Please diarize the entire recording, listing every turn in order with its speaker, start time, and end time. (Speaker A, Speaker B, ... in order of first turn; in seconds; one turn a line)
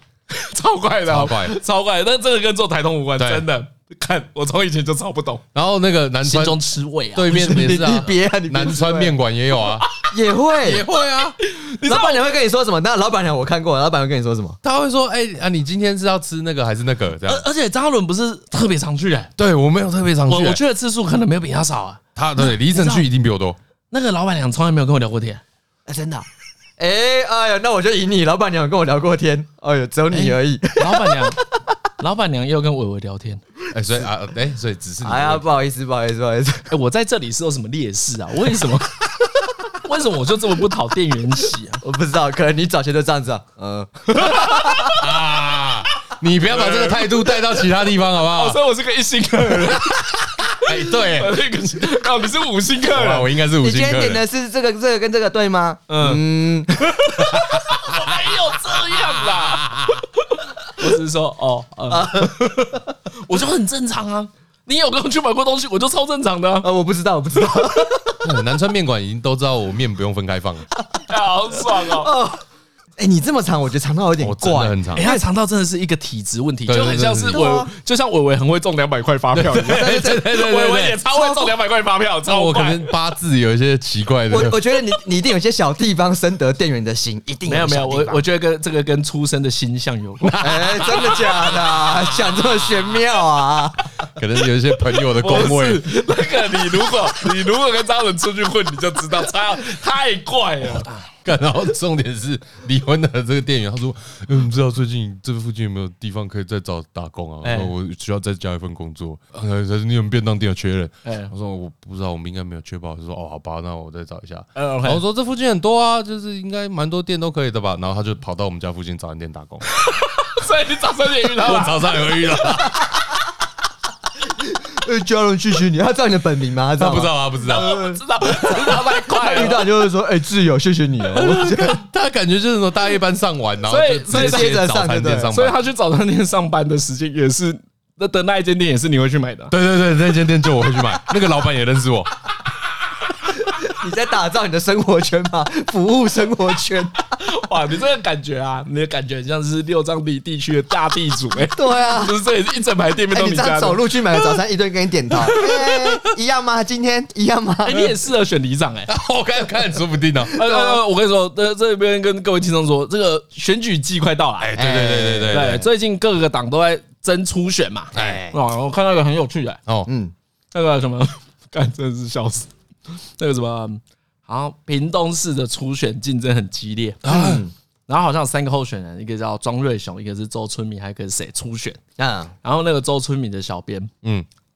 Speaker A: 0.3-5.4
Speaker B: 1.1-1.6
Speaker B: 3.2-3.5
Speaker B: 5.5-6.6
Speaker A: 6.2-7.3
Speaker B: 7.1-9.8
Speaker C: 7.3-9.1
Speaker C: 10.0-10.9
Speaker B: 10.6-11.4
Speaker A: 11.4-12.2
Speaker C: 11.8-14.6
Speaker B: 14.6-17.4
Speaker A: 17.3-19.3
Speaker B: 19.4-20.6
Speaker A: 20.3-23.1
Speaker B: 22.2-23.6
Speaker A: 23.9-25.4
Speaker C: 25.9-26.3
Speaker C: 26.8-31.5
Speaker A: 30.1-31.4
Speaker A: 32.0-33.4
Speaker B: 33.7-35.5
Speaker C: 35.0-36.7
Speaker A: 36.7-39.1
Speaker A: 39.7-41.8
Speaker C: 41.8-45.0
Speaker A: 44.1-45.0
Speaker B: 44.9-48.6
Speaker A: 46.5-47.4
Speaker A: 48.2-53.3
Speaker B: 49.5-51.4
Speaker B: 52.9-54.2
Speaker C: 53.6-57.1
Speaker A: 55.9-56.2
Speaker A: 56.9-66.7
Speaker B: 57.2-60.0
Speaker C: 61.9-62.8
Speaker C: 66.6-68.3
Speaker B: 68.2-70.7
Speaker A: 71.1-72.1
Speaker C: 71.7-72.4
Speaker C: 73.0-75.2
Speaker B: 74.2-75.1
Speaker A: 75.0-82.9
Speaker B: 76.7-77.4
Speaker C: 77.3-77.7
Speaker B: 79.3-81.0
Speaker C: 79.6-80.2
Speaker C: 81.1-81.5
Speaker B: 82.3-84.6
Speaker C: 84.3-88.2
Speaker A: 87.5-90.4
Speaker B: 90.2-92.4
Speaker C: 90.4-93.9
Speaker B: 94.1-95.9
Speaker A: 95.0-101.1
Speaker B: 100.8-119.6
Speaker A: 107.4-107.7
Speaker A: 111.0-111.3
Speaker A: 114.6-115.0
Speaker A: 119.8-122.1
Speaker B: 121.4-123.0
Speaker C: 124.3-131.8
Speaker B: 126.8-127.8
Speaker A: 127.5-129.7
Speaker B: 131.1-135.6
Speaker A: 133.7-134.6
Speaker C: 134.1-135.3
Speaker A: 135.3-139.5
Speaker B: 139.5-142.1
Speaker C: 143.3-147.1
Speaker A: 147.2-153.8
Speaker C: 151.5-152.2
Speaker C: 153.1-157.9
Speaker A: 157.6-158.9
Speaker B: 158.9-160.4
Speaker A: 160.3-164.6
Speaker C: 160.4-160.8
Speaker B: 164.4-165.7
Speaker C: 164.6-165.5
Speaker A: 165.3-169.6
Speaker B: 167.9-168.3
Speaker C: 167.9-168.3
Speaker C: 169.9-170.1
Speaker A: 170.5-177.1
Speaker B: 177.0-177.4
Speaker C: 177.1-177.5
Speaker A: 177.9-181.8
Speaker C: 182.0-182.3
Speaker A: 182.4-183.9